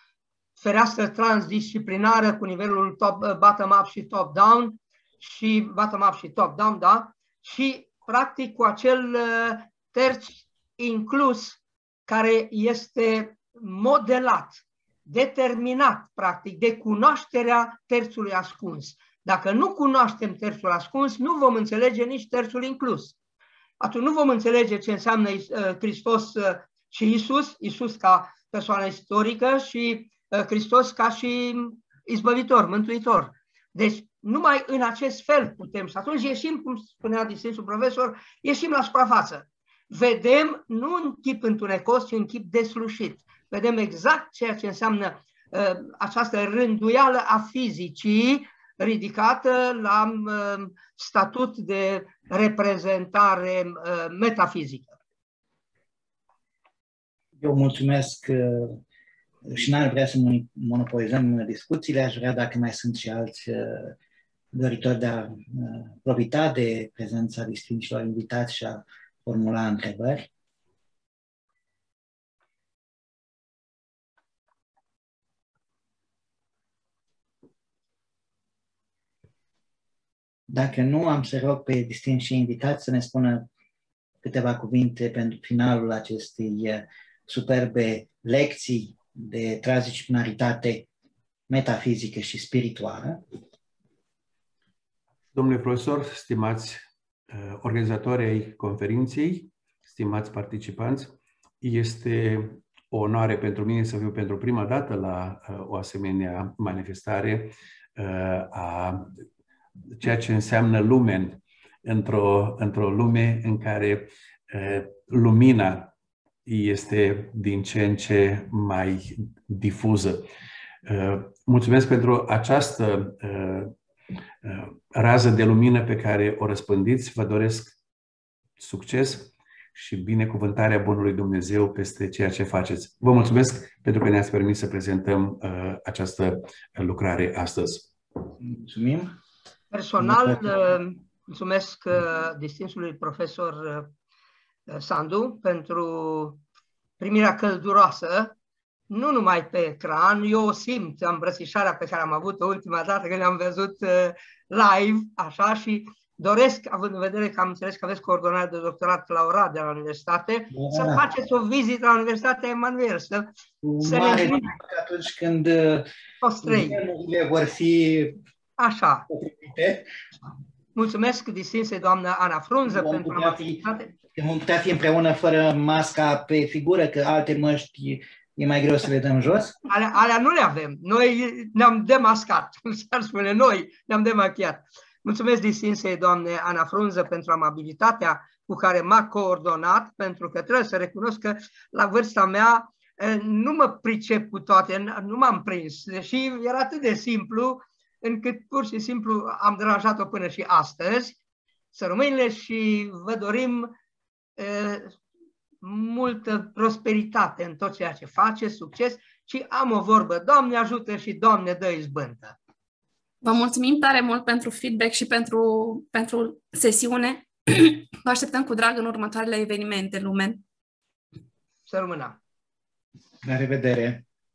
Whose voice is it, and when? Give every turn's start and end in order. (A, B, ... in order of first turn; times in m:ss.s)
0:00.6-0:23.2 A
0:23.8-0:54.9 A
0:57.4-0:58.8 B
0:59.5-1:03.9 B
1:04.5-1:10.3 B
1:20.5-1:23.5 B
1:24.2-1:30.9 B
1:31.5-1:33.2 B
1:35.3-1:49.2 C
1:50.0-1:55.9 C
1:56.5-2:00.3 C
2:00.8-2:03.7 C
2:04.4-2:07.8 C
2:08.6-2:17.9 C
2:18.4-2:19.1 B
2:19.7-2:23.9 A
2:20.0-2:20.6 B
2:24.7-2:26.4 A
2:27.0-2:28.4 A
2:28.9-2:43.3 A
2:40.5-2:41.1 B
2:43.6-2:45.9 B
2:43.8-2:44.5 A
2:46.2-2:46.8 A
2:46.4-2:48.2 B
2:48.6-2:49.1 A
2:49.1-2:49.9 B
2:50.8-2:53.9 A
2:52.7-2:53.6 B
2:54.2-2:59.6 B
2:59.7-3:21.2 A
3:21.7-3:23.7 A
3:24.4-3:25.0 A
3:25.6-3:32.4 A
3:33.2-3:40.4 D
3:41.7-3:42.2 A
3:43.2-3:44.0 B